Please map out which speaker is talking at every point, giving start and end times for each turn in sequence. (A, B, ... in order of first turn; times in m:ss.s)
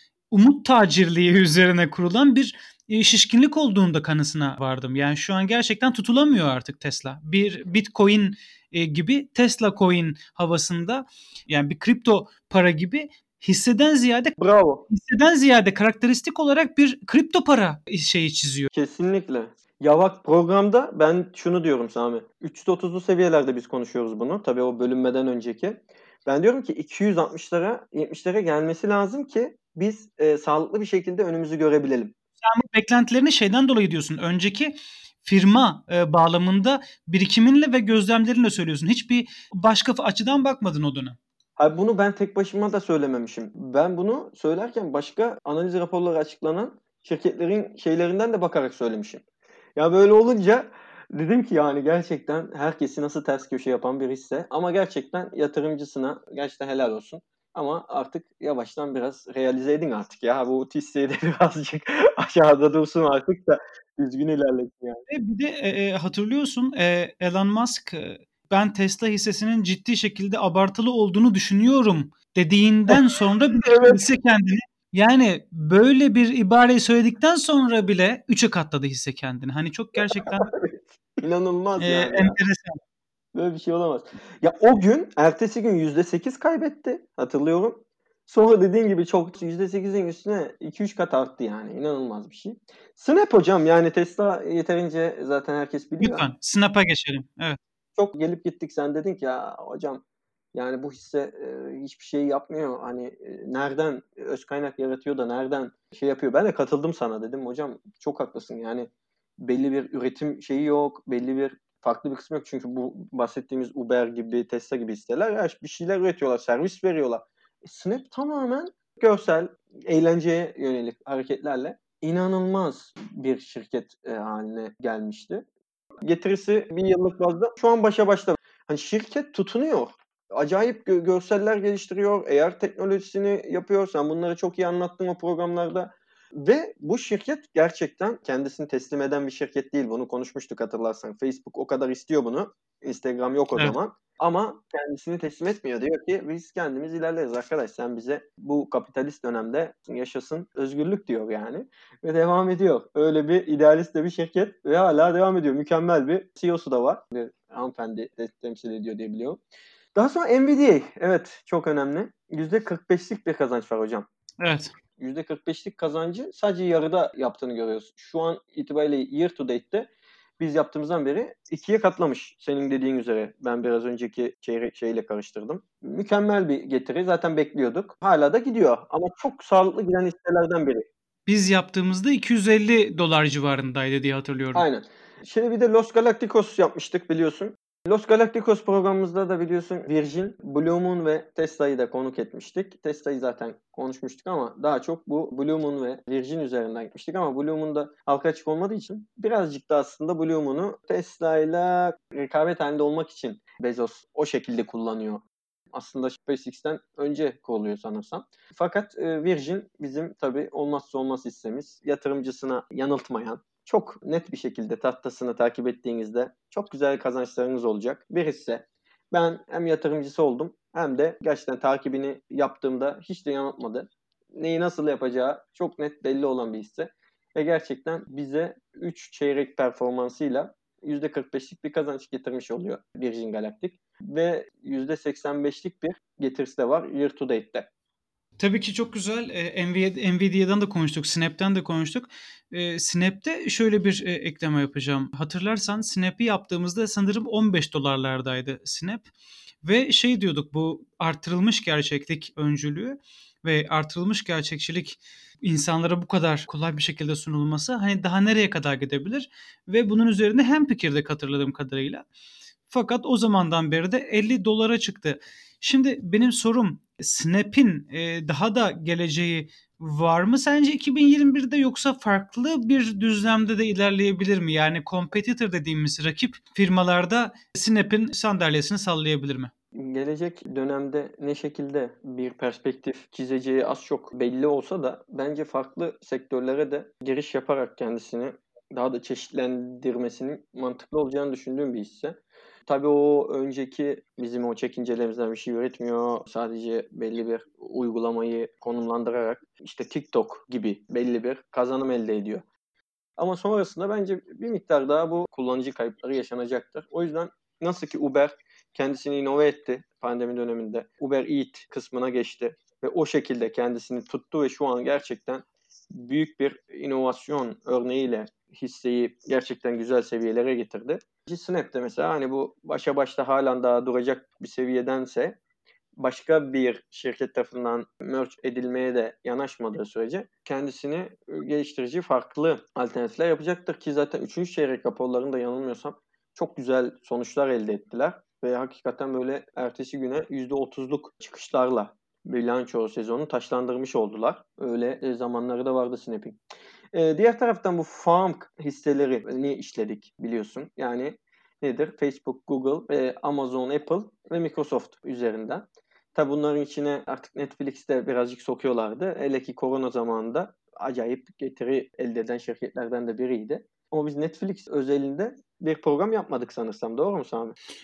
0:00.3-0:14.4 A
0:14.4-0:14.9 B
0:14.9-0:18.7 A
0:18.7-0:32.1 B
0:32.4-0:41.2 A
0:41.6-0:49.2 B
0:49.8-1:05.0 B
1:05.1-1:20.5 A
1:13.6-1:14.0 B
1:20.2-1:22.4 B
1:21.8-1:22.8 A
1:23.4-1:36.2 B
1:36.0-1:37.6 A
1:38.0-1:40.0 B
1:40.5-1:48.9 B
1:49.4-2:05.4 B
2:06.0-2:39.4 B
2:40.0-2:44.1 B
2:44.4-2:44.7 A
2:45.0-3:00.8 B
3:01.3-3:04.7 A
3:04.6-3:57.7 B
3:58.4-4:09.1 A
4:09.6-4:22.0 A
4:22.7-4:39.5 A
4:39.8-5:02.4 B
5:03.2-5:25.4 B
5:26.0-5:46.4 B
5:46.9-6:07.6 B